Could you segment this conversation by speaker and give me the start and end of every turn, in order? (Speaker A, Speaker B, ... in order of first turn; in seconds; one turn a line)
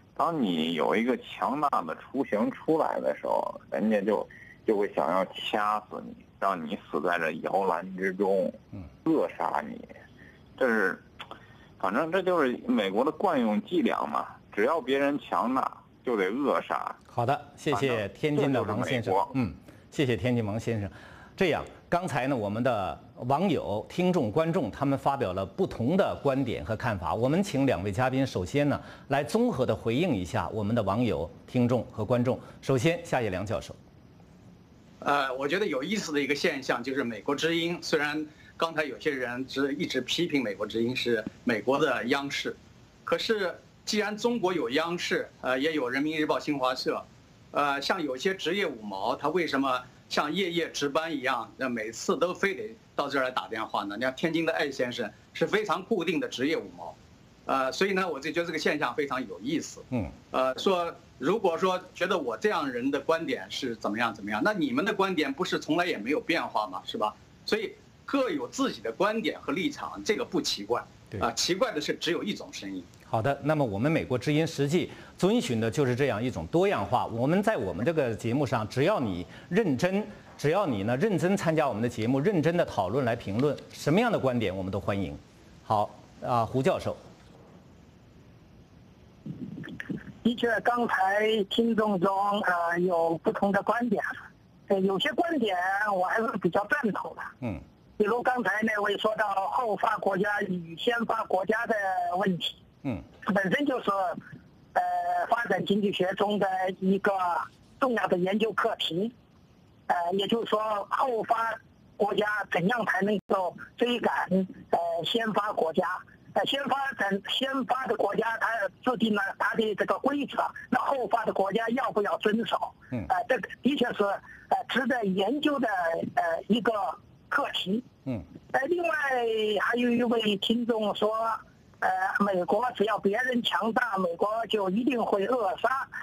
Speaker A: 0.1-9.9
Speaker A: 10.6-11.0
Speaker A: 11.8-17.0
Speaker B: 17.1-33.8
Speaker A: 17.7-19.3
Speaker C: 35.0-56.9
Speaker C: 57.5-72.9
Speaker B: 73.1-87.0
Speaker D: 90.2-94.2
Speaker D: 94.7-97.3
Speaker D: 98.0-102.6
Speaker D: 103.2-104.2
Speaker D: 104.7-109.1
Speaker D: 109.9-127.9
Speaker D: 128.5-135.9